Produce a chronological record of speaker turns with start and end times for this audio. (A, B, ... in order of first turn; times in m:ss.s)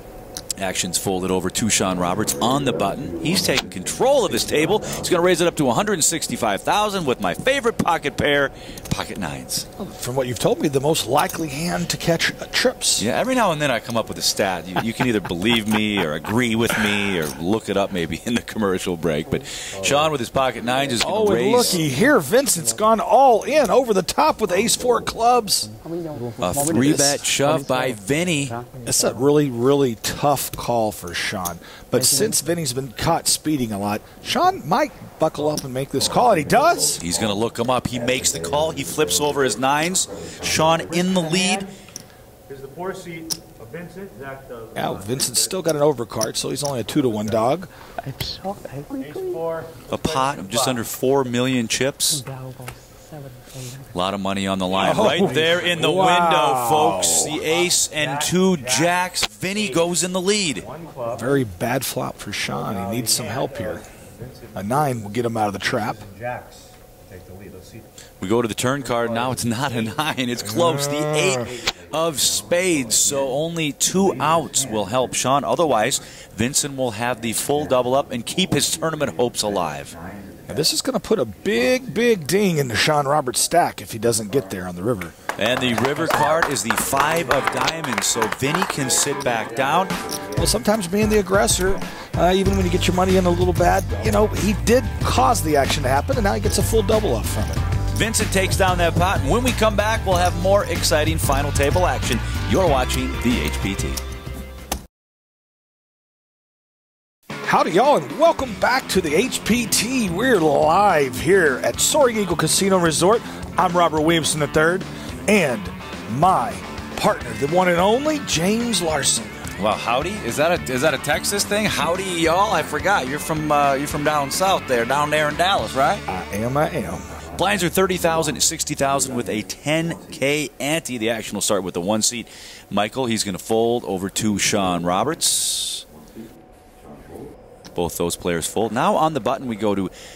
0:00.6-0:09.6 A
0:09.8-0:13.1 B
0:13.0-0:21.8 A
0:21.0-0:25.7 B
0:25.8-0:27.8 C
0:26.4-0:28.5 A
0:28.8-0:37.0 B
0:37.0-0:41.7 A
0:44.7-0:47.7 B
0:48.0-0:49.4 C
0:49.9-0:52.2 A
0:52.1-0:53.9 C
0:53.9-1:00.7 A
0:54.7-0:57.4 B
1:01.1-1:03.9 B
1:04.5-1:06.0 B
1:08.2-1:19.9 A
1:10.4-1:11.5 B
1:20.5-1:25.1 B
1:25.4-1:29.9 A
1:30.4-1:37.6 B
1:37.9-1:44.0 A
1:47.4-1:59.3 B
1:59.6-2:06.0 A
2:06.1-2:07.1 B
2:07.4-2:15.8 A
2:17.7-2:19.9 A